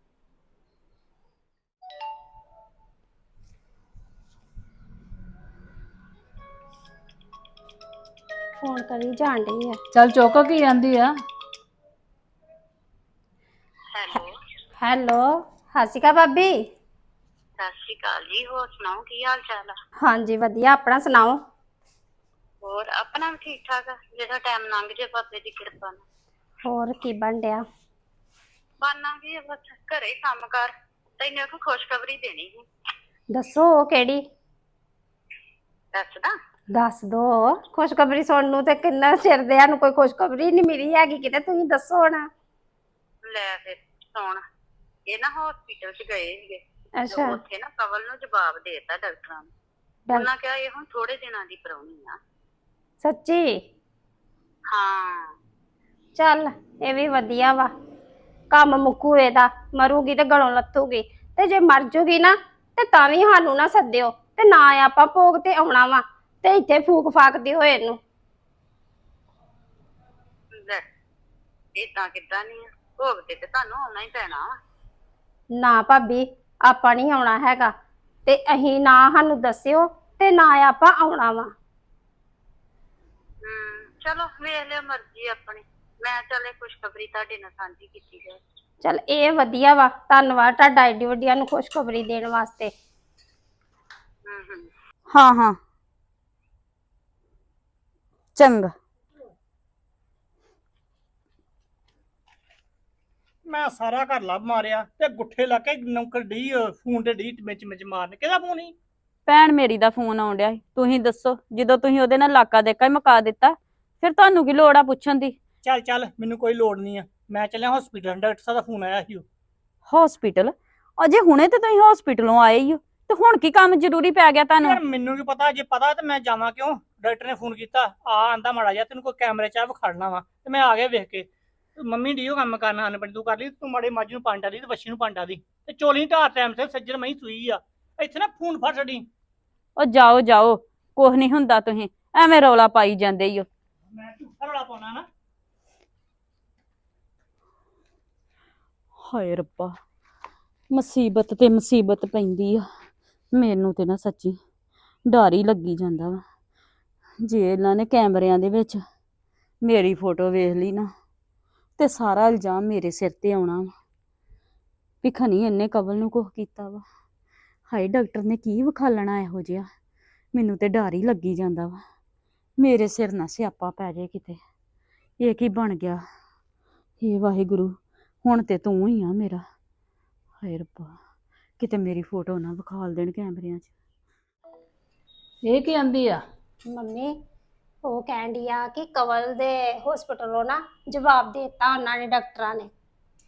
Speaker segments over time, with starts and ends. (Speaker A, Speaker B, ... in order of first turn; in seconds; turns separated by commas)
Speaker A: 8.6-9.8, Speaker B: 9.9-11.1, Speaker C: 13.9-14.2, Speaker A: 14.8-16.6, Speaker C: 17.6-19.8, Speaker A: 20.0-21.4, Speaker C: 22.6-26.0, Speaker A: 26.7-27.6, Speaker C: 28.8-32.6, Speaker A: 33.3-34.2, Speaker C: 35.9-36.3, Speaker A: 36.7-42.2, Speaker C: 43.2-44.4, Speaker C: 45.1-49.5, Speaker A: 47.0-47.4, Speaker C: 50.2-52.2, Speaker A: 53.0-53.6, Speaker C: 54.7-55.3, Speaker A: 56.1-57.7, Speaker A: 58.5-68.0, Speaker C: 71.8-74.5, Speaker A: 75.6-77.7, Speaker A: 78.3-81.5, Speaker C: 83.5-88.4, Speaker A: 88.8-92.7, Speaker C: 94.3-94.7, Speaker D: 95.1-95.6, Speaker D: 98.4-98.7, Speaker E: 103.5-108.8, Speaker D: 109.3-115.4, Speaker E: 115.6-119.2, Speaker D: 119.9-124.8, Speaker E: 124.6-139.1, Speaker D: 139.8-143.5, Speaker E: 143.9-145.1, Speaker D: 149.0-149.8, Speaker D: 150.7-152.7, Speaker D: 153.3-154.4, Speaker D: 155.1-156.2, Speaker D: 157.2-158.8, Speaker D: 159.6-160.9, Speaker D: 161.8-163.7, Speaker D: 165.0-166.8, Speaker D: 167.7-169.7, Speaker D: 170.3-171.8, Speaker D: 172.6-174.4, Speaker D: 175.2-176.0, Speaker D: 177.0-179.4, Speaker D: 180.4-181.0, Speaker D: 181.6-183.7, Speaker B: 185.4-186.2, Speaker A: 186.7-187.1, Speaker A: 187.9-192.7